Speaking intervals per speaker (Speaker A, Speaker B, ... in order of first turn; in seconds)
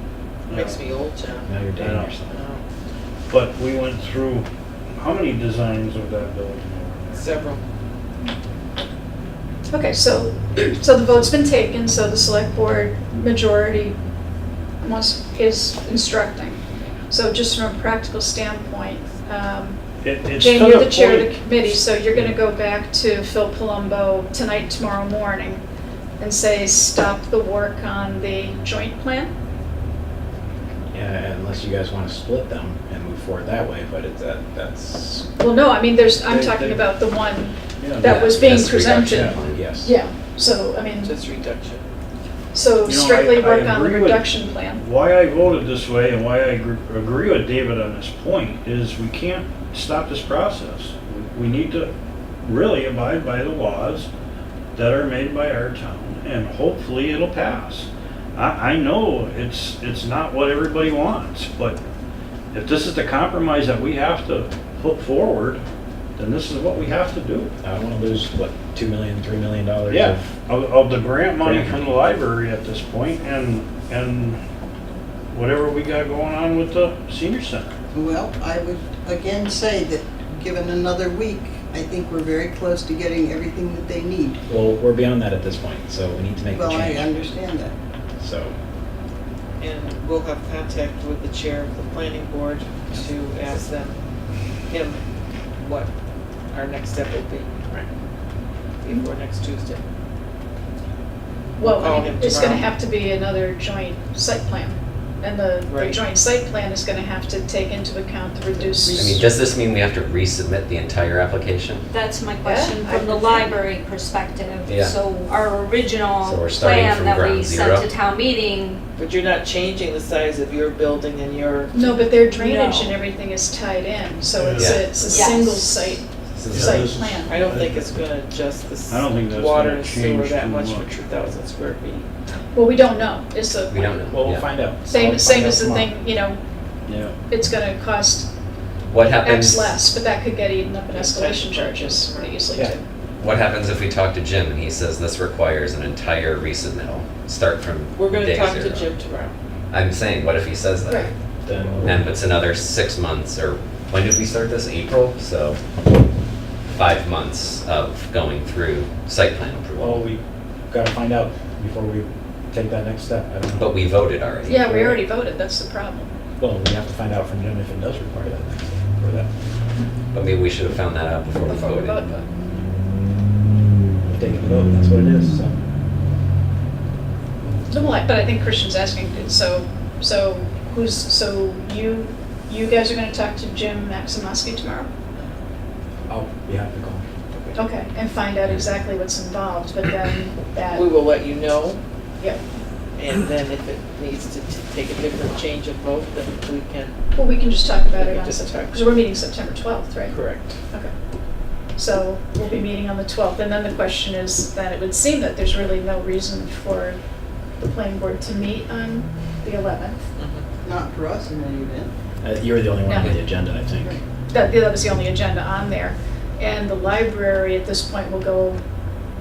Speaker A: 0.5-0.8, 1.8-2.1, 3.3-7.3, 20.0-22.4, 36.2-36.9, 37.8-39.4, 42.8-51.9, 52.4-54.1, 54.7-61.8, 62.5-65.6, 66.2-67.5, 69.9-74.4, 75.3-77.8, 124.3-125.0, 126.5-128.0, 128.9-130.9, 136.9-137.2
Speaker B: 0.5-1.6, 2.3-2.6, 7.1-7.6, 41.0-41.9, 89.6-94.0, 94.6-95.0, 95.6-95.9, 96.5-97.8, 98.8-99.8, 101.6-102.7, 105.7-106.0, 119.0-121.7, 125.0-125.4, 127.3-132.3, 140.9-142.4, 147.9-149.3, 187.3-187.6, 190.7-191.8, 192.9-196.9, 197.9-198.9, 200.1-200.6, 210.2-210.4
Speaker C: 1.5-2.4, 30.9-35.3, 39.5-39.9, 67.6-70.2, 71.4-71.9, 84.5-87.2, 88.2-88.5, 134.1-135.9, 151.4-152.1, 159.8-163.7, 164.6-165.0, 166.4-169.3, 174.1-175.6, 186.1-187.0, 212.2-214.0
Speaker D: 9.7-14.0, 14.8-19.8, 20.4-25.6, 26.2-29.3, 35.4-41.1, 42.5-44.8, 101.6-109.1, 112.4-113.6, 121.7-127.3, 132.5-134.0, 134.8-136.4, 137.3-138.3, 139.2-142.8, 150.9-151.1, 164.4-166.1, 171.4-172.2, 177.7-184.9, 187.5-190.9, 197.1-200.9, 201.7-207.0, 207.6-210.0, 212.8-213.2, 214.3-218.6
Speaker E: 38.0-39.7, 108.9-111.8, 114.7-115.0, 116.2-117.9, 124.6-124.9, 126.3-127.0, 133.7-134.4, 138.9-139.8, 143.2-148.9, 149.7-151.1, 151.8-155.6, 156.7-160.0, 163.5-164.7, 170.1-172.2, 188.4-188.7
Speaker F: 77.9-84.4, 86.5-87.7, 108.8-109.2, 210.6-211.9
Speaker G: 111.9-118.8, 122.1-123.0, 125.0-125.9